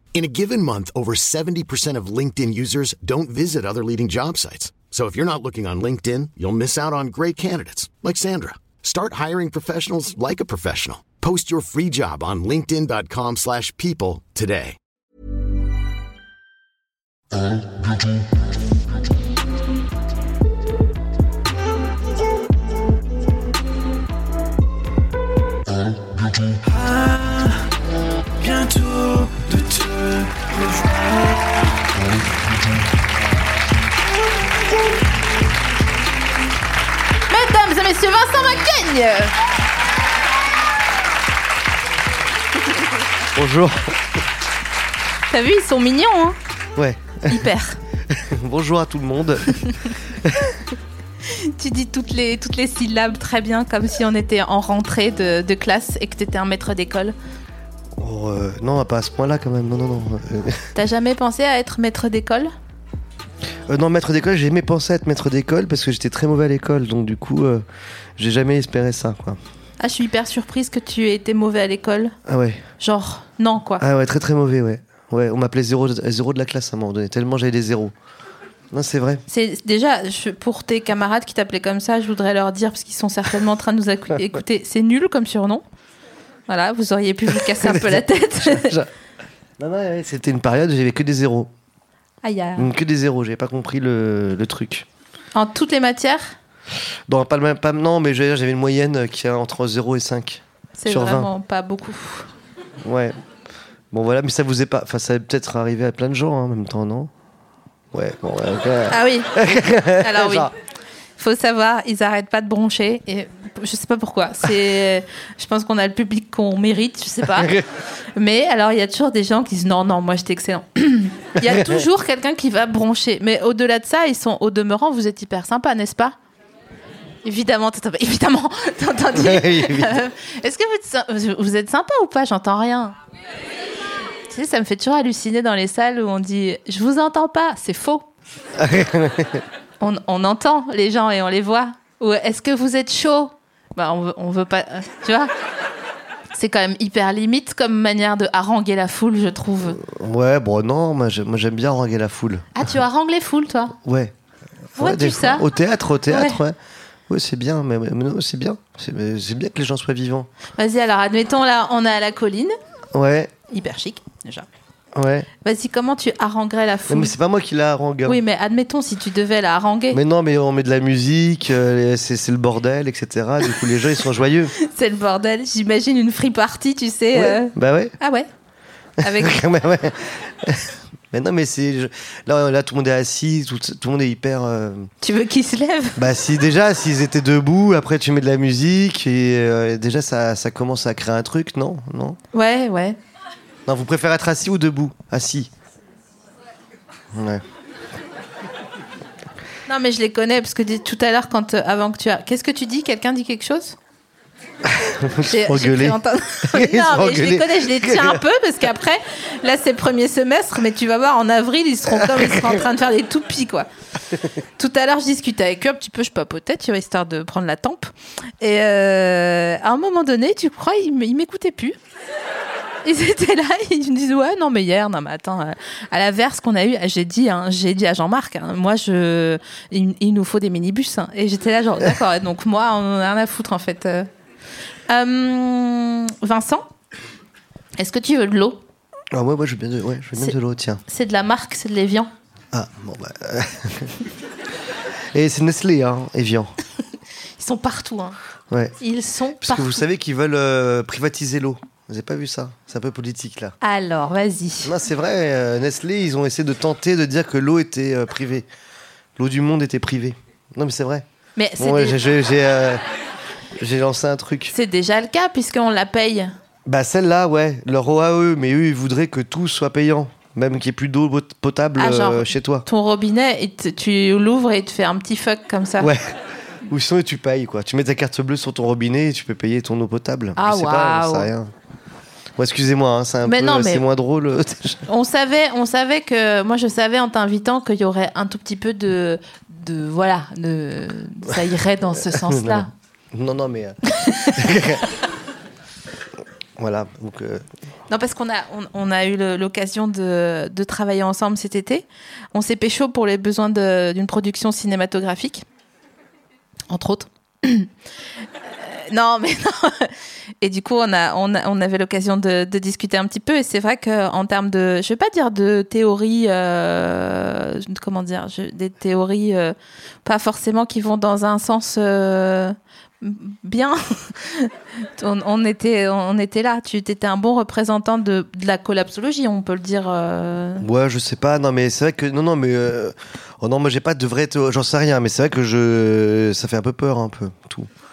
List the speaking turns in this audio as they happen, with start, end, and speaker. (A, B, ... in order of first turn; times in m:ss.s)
0:00.1-0:14.8 A
0:26.6-0:27.7 B
0:28.4-0:31.6 B
0:37.3-0:39.3 C
0:43.3-0:44.0 D
0:45.3-0:46.4 C
0:46.8-0:47.5 D
0:47.3-0:47.8 C
0:48.1-0:49.6 D
0:50.2-0:50.6 D
0:51.2-0:57.2 C
0:58.0-1:00.7 D
1:00.7-1:02.5 C
1:03.7-1:07.6 D
1:08.2-1:09.4 D
1:09.8-1:12.1 C
1:12.2-1:12.6 D
1:12.8-1:13.8 C
1:13.8-1:17.9 D
1:18.7-1:19.2 D
1:19.3-1:25.6 C
1:26.5-1:28.8 C
1:27.3-1:28.9 D
1:29.6-1:31.5 D
1:32.2-1:32.7 C
1:32.6-1:34.8 D
1:35.3-1:36.3 C
1:37.1-1:41.3 D
1:40.8-1:42.3 C
1:42.8-1:43.1 D
1:43.9-1:47.1 D
1:47.9-1:50.5 D
1:48.9-1:49.3 C
1:49.9-1:50.5 C
1:51.2-1:57.5 C
1:57.3-1:57.6 D
1:58.2-2:06.2 C
2:01.4-2:01.8 D
2:07.2-2:13.0 C
2:09.1-2:10.0 D
2:14.3-2:18.1 C
2:18.5-2:19.4 D
2:19.8-2:25.3 C
2:26.3-2:29.8 C
2:29.7-2:32.6 D
2:32.5-2:33.7 C
2:33.8-2:34.1 D
2:34.7-2:36.6 D
2:34.8-2:35.5 C
2:36.1-2:36.4 C
2:37.1-2:40.3 D
2:40.6-2:42.5 C
2:42.9-2:43.3 D
2:43.5-2:44.5 C
2:44.9-2:45.3 D
2:45.4-2:47.1 C
2:46.9-2:48.2 D
2:48.0-2:50.0 C
2:49.9-2:54.5 D
2:54.5-2:58.3 C
2:57.1-2:57.9 D
2:59.0-2:59.4 C
2:59.0-3:04.9 D
3:05.0-3:06.0 C
3:06.0-3:12.2 D
3:12.3-3:13.0 C
3:13.7-3:15.5 D
3:17.1-3:17.4 D
3:19.7-3:23.8 C
3:24.6-3:28.2 D
3:25.2-3:33.7 C
3:31.9-3:32.6 D
3:34.6-3:41.8 C
3:42.8-3:54.1 C
3:54.9-3:56.7 C
3:57.8-3:58.6 C
3:59.1-4:00.8 D
4:00.9-4:02.1 C
4:02.5-4:04.0 D
4:05.1-4:06.5 D
4:07.4-4:08.2 C
4:08.5-4:08.8 D
4:08.8-4:09.8 C
4:09.3-4:13.6 D
4:13.6-4:14.8 C
4:14.6-4:18.5 D
4:19.2-4:21.0 D
4:21.4-4:22.0 C
4:21.6-4:22.8 D
4:23.6-4:24.5 D
4:24.5-4:26.3 C
4:26.6-4:32.6 D
4:31.8-4:35.9 C
4:35.8-4:41.5 D
4:40.4-4:41.3 C
4:42.4-4:44.8 D
4:43.2-4:43.8 C
4:44.9-4:52.7 C
4:51.9-4:53.8 D
4:53.9-4:54.6 C
4:54.3-4:54.8 D
4:56.6-4:57.4 D
4:57.9-5:05.4 C
5:06.7-5:07.7 C
5:08.6-5:19.5 C
5:20.0-5:30.6 C
5:30.6-5:37.7 D